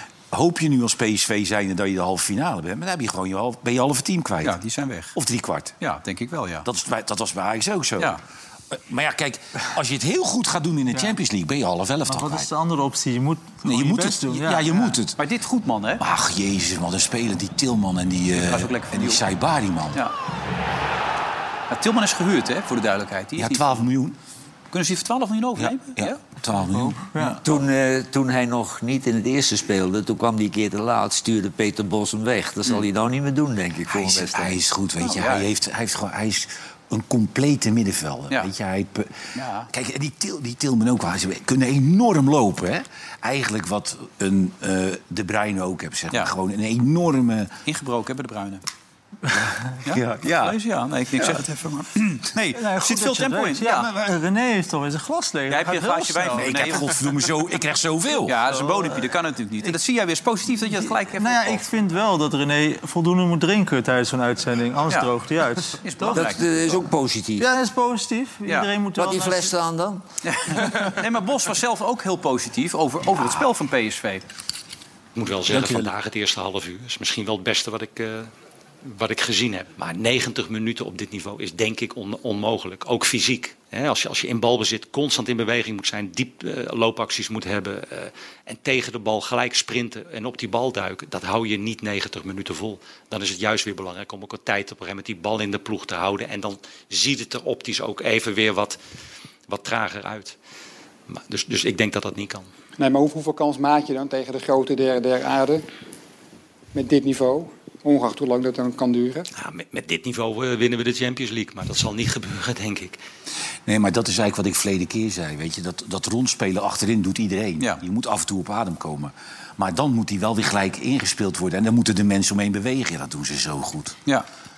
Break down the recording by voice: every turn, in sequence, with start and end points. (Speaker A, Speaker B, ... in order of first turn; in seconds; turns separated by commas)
Speaker A: 0.3-4.6, Speaker B: 4.4-5.2, Speaker A: 5.2-5.8, Speaker B: 5.8-6.7, Speaker A: 6.7-8.2, Speaker A: 8.7-12.5, Speaker C: 12.1-15.0, Speaker A: 13.7-15.2, Speaker B: 15.2-16.0, Speaker A: 16.0-20.0, Speaker B: 18.4-19.2, Speaker B: 21.7-23.8, Speaker A: 23.4-24.2, Speaker B: 24.7-26.2, Speaker A: 25.6-27.1, Speaker C: 26.9-27.4, Speaker D: 27.4-34.6, Speaker A: 33.9-39.2, Speaker B: 35.0-35.5, Speaker B: 39.4-39.7, Speaker A: 39.7-47.5, Speaker B: 47.7-48.6, Speaker A: 49.3-50.6, Speaker B: 49.9-53.9, Speaker C: 52.5-56.6, Speaker B: 55.5-57.0, Speaker A: 56.4-58.4, Speaker B: 58.2-61.7, Speaker C: 58.5-59.0, Speaker C: 60.8-66.3, Speaker B: 65.7-66.5, Speaker D: 66.1-67.5, Speaker C: 67.4-69.5, Speaker D: 69.0-70.0, Speaker B: 70.2-74.3, Speaker E: 75.2-78.3, Speaker A: 75.5-75.9, Speaker E: 78.8-98.8, Speaker E: 99.5-100.4, Speaker E: 101.1-102.5, Speaker F: 102.8-105.7, Speaker F: 106.8-109.3, Speaker E: 109.3-113.0, Speaker A: 113.7-124.0